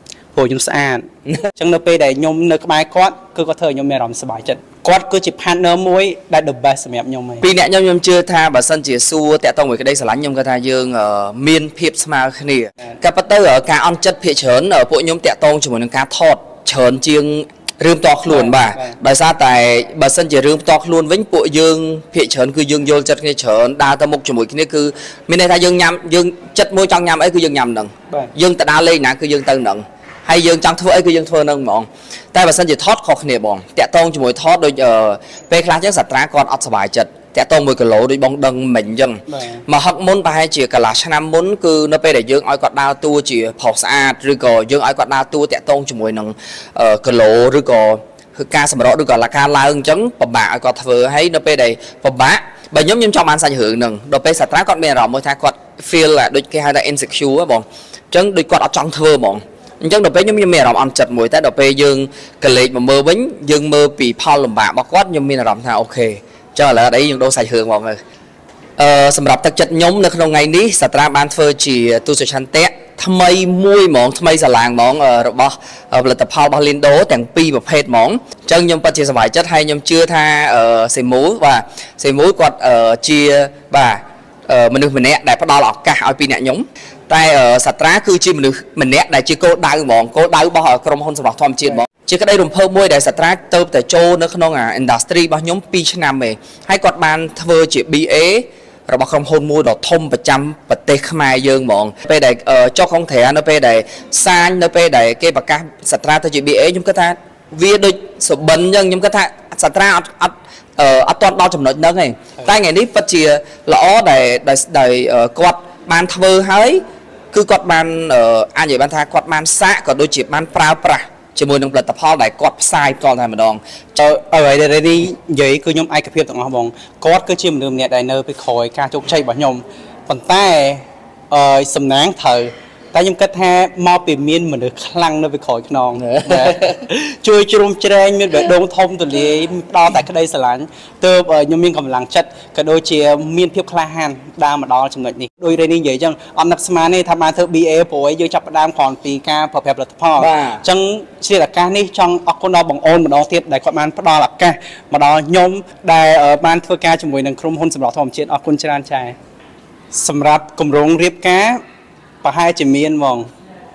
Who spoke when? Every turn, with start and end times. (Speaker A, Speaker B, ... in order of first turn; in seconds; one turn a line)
Speaker A: 0.3-7.4
Speaker B: 7.4-68.0
Speaker A: 18.3-18.9
Speaker A: 39.3-39.6
Speaker B: 68.8-123.6
Speaker A: 123.9-159.1
Speaker B: 136.1-136.6
Speaker B: 150.2-150.6
Speaker A: 159.9-161.6
Speaker A: 162.2-163.3